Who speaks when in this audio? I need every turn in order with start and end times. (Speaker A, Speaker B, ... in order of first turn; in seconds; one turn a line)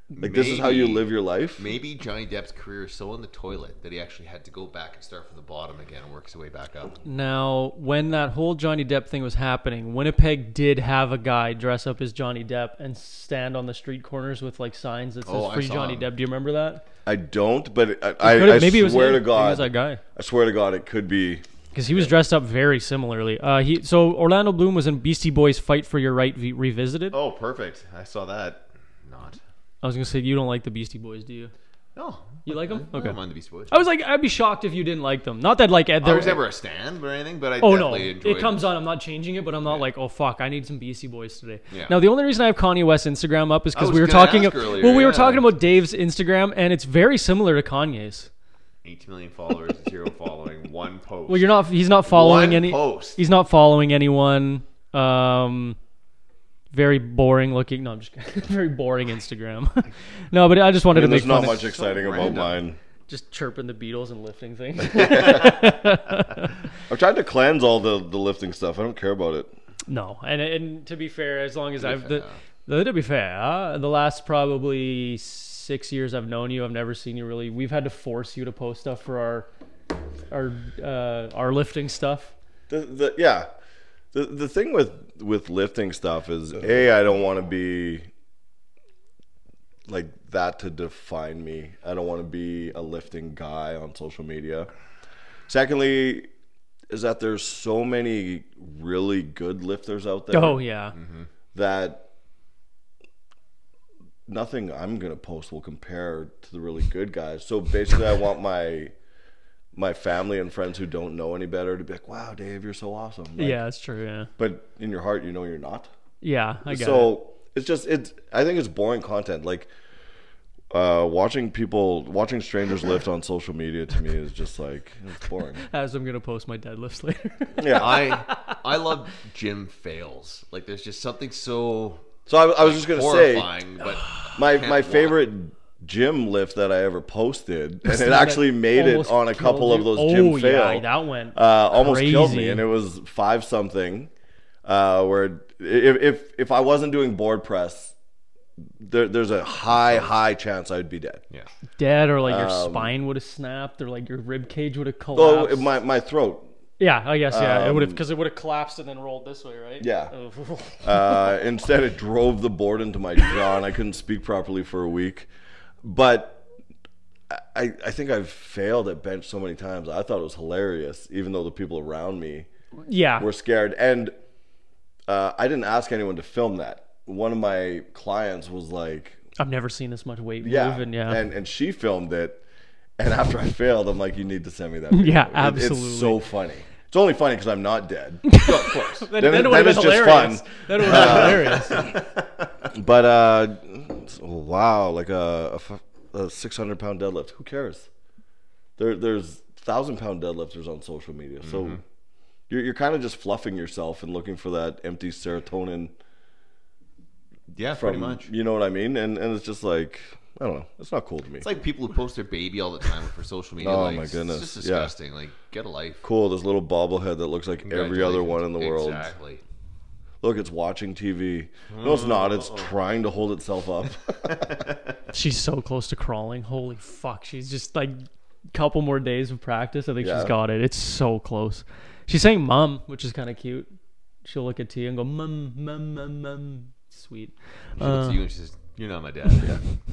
Speaker A: 0.1-1.7
Speaker B: 0.2-7.0
Speaker C: 7.0-16.8
Speaker B: 15.2-16.1
Speaker A: 17.1-22.1
Speaker C: 18.2-20.0
Speaker C: 21.7-27.2
Speaker B: 27.1-29.4
Speaker C: 29.8-31.5
Speaker B: 31.9-33.8
Speaker C: 32.4-36.4
Speaker B: 36.0-38.7
Speaker C: 37.6-48.3
Speaker B: 41.7-42.0
Speaker B: 43.7-45.5
Speaker B: 48.8-51.5
Speaker C: 51.3-55.8
Speaker B: 52.1-53.2
Speaker C: 56.7-62.4
Speaker A: 60.9-62.8
Speaker B: 61.9-62.5
Speaker C: 63.1-66.5
Speaker A: 66.9-69.5
Speaker C: 69.9-79.5
Speaker B: 71.8-72.4
Speaker C: 80.3-82.3
Speaker A: 82.7-83.5
Speaker A: 84.1-88.1
Speaker A: 89.9-94.7
Speaker A: 95.5-96.3
Speaker A: 96.9-100.6
Speaker C: 100.3-101.0
Speaker B: 100.9-101.3
Speaker A: 101.5-102.1
Speaker A: 104.3-108.9
Speaker A: 109.7-113.6
Speaker C: 113.4-114.3
Speaker A: 114.4-115.9
Speaker C: 116.2-117.1
Speaker A: 116.7-119.7
Speaker A: 120.7-125.6
Speaker C: 125.7-128.6
Speaker A: 127.6-128.0
Speaker B: 127.7-132.1
Speaker A: 132.3-133.5
Speaker B: 132.6-135.2
Speaker A: 134.3-144.1
Speaker C: 137.8-142.6
Speaker A: 144.6-147.9
Speaker A: 148.8-151.2
Speaker B: 149.7-150.1
Speaker C: 151.8-155.7
Speaker A: 152.2-152.9
Speaker A: 155.1-156.5
Speaker C: 156.8-161.4
Speaker A: 157.3-158.0
Speaker A: 159.8-160.1
Speaker A: 160.8-165.3
Speaker A: 165.8-166.4
Speaker A: 167.3-172.5
Speaker C: 172.8-173.3
Speaker A: 173.2-174.1
Speaker A: 175.1-179.2
Speaker C: 179.4-181.2
Speaker A: 180.4-182.4
Speaker A: 183.0-188.2
Speaker C: 184.9-186.2
Speaker C: 188.3-191.9
Speaker B: 188.4-189.1
Speaker A: 189.2-191.9
Speaker B: 190.8-192.7
Speaker A: 192.7-197.9
Speaker A: 198.8-201.8
Speaker B: 201.4-201.8
Speaker A: 202.5-205.9
Speaker B: 207.5-208.3
Speaker A: 207.7-211.5
Speaker B: 211.4-216.0
Speaker A: 213.6-214.9
Speaker A: 216.0-219.1
Speaker B: 217.6-219.4
Speaker A: 220.2-224.4
Speaker B: 221.7-222.7
Speaker B: 224.2-224.9
Speaker C: 225.1-228.0
Speaker C: 228.5-233.7
Speaker A: 230.0-230.3
Speaker C: 234.2-238.2
Speaker B: 237.8-239.6